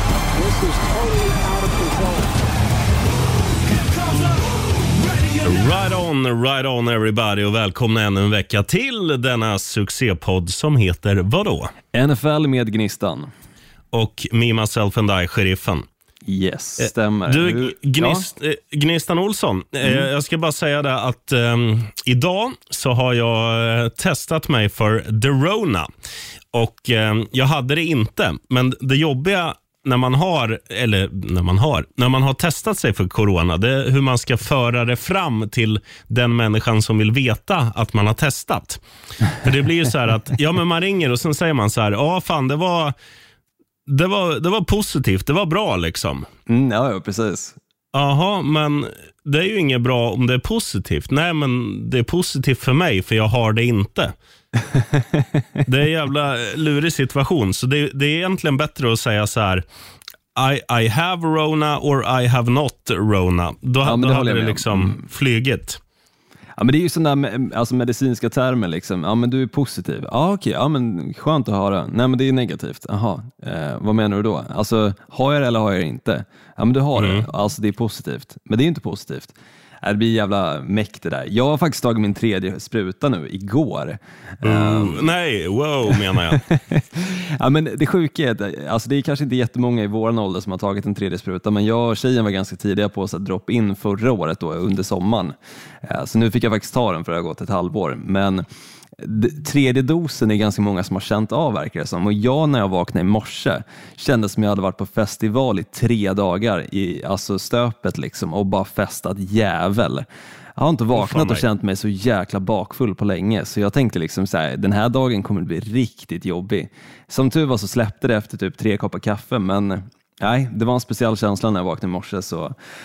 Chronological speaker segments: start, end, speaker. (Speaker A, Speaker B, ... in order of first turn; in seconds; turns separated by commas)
Speaker A: 0.3-2.3, Speaker B: 5.4-11.7, Speaker C: 11.9-13.3, Speaker B: 13.9-15.9, Speaker C: 16.3-18.2, Speaker B: 16.8-25.9, Speaker B: 26.5-38.8, Speaker B: 39.3-43.0, Speaker B: 43.9-46.3, Speaker C: 46.5-47.6, Speaker B: 47.9-54.1, Speaker C: 54.9-55.2, Speaker B: 55.7-59.6, Speaker B: 60.4-65.8, Speaker C: 63.8-65.0, Speaker C: 66.6-85.1, Speaker B: 77.0-77.3, Speaker B: 84.4-86.4, Speaker C: 86.3-98.4, Speaker C: 99.0-122.6, Speaker B: 111.0-111.4